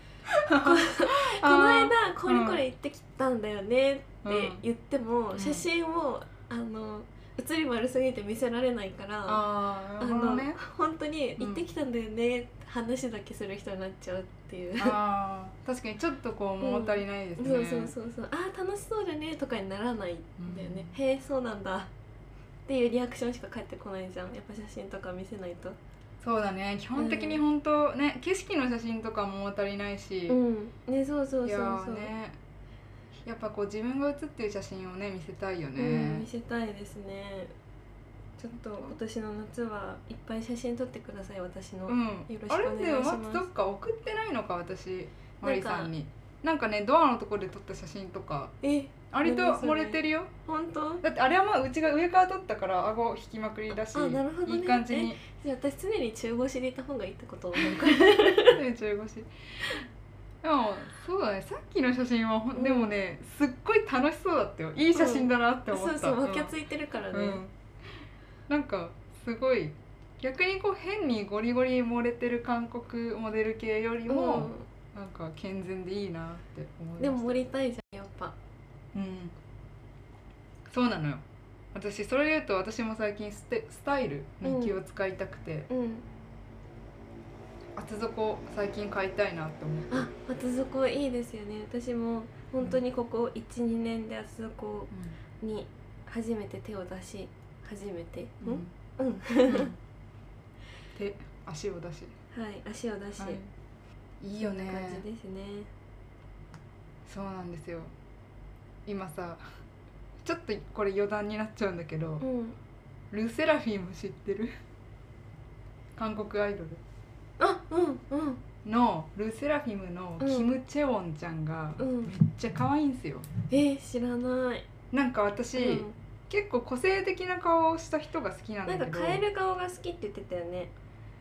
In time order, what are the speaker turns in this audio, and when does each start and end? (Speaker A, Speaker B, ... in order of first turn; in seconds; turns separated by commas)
Speaker A: 0.3-2.6, Speaker B: 0.5-9.4, Speaker A: 4.2-4.6, Speaker A: 5.3-5.7, Speaker A: 9.2-10.6, Speaker B: 10.0-14.9, Speaker A: 11.4-11.6, Speaker A: 14.8-17.9, Speaker B: 16.6-21.9, Speaker A: 20.4-20.9, Speaker B: 22.7-25.8, Speaker A: 26.2-30.4, Speaker B: 26.9-27.4, Speaker B: 30.3-32.1, Speaker A: 31.4-32.4, Speaker A: 33.2-36.3, Speaker B: 35.8-37.5, Speaker B: 38.4-43.5, Speaker A: 41.9-48.5, Speaker B: 45.4-45.9, Speaker B: 48.6-51.0, Speaker A: 49.1-50.3, Speaker A: 51.0-55.2, Speaker B: 53.8-58.6, Speaker A: 57.5-59.3, Speaker A: 60.4-66.5, Speaker B: 62.5-62.9, Speaker B: 64.9-67.4, Speaker A: 67.1-67.5, Speaker A: 68.5-77.5, Speaker B: 74.0-74.6, Speaker B: 77.0-78.3, Speaker A: 78.9-79.3, Speaker A: 80.7-81.2, Speaker A: 81.7-85.7, Speaker B: 84.4-84.8, Speaker B: 85.7-86.0, Speaker A: 87.8-90.1, Speaker B: 89.9-99.7, Speaker A: 98.4-98.7, Speaker A: 99.5-99.8, Speaker A: 100.9-102.1, Speaker B: 102.3-103.4, Speaker A: 103.2-103.5, Speaker A: 104.2-105.0, Speaker B: 104.4-105.7, Speaker A: 107.0-107.9, Speaker A: 108.8-109.4, Speaker A: 110.2-112.2, Speaker B: 112.2-112.5, Speaker A: 113.1-114.5, Speaker A: 116.0-116.8, Speaker B: 117.4-118.4, Speaker A: 118.6-123.3, Speaker B: 120.2-120.5, Speaker B: 121.8-122.1, Speaker B: 123.5-124.7, Speaker A: 124.9-129.2, Speaker B: 125.5-126.0, Speaker B: 128.7-130.7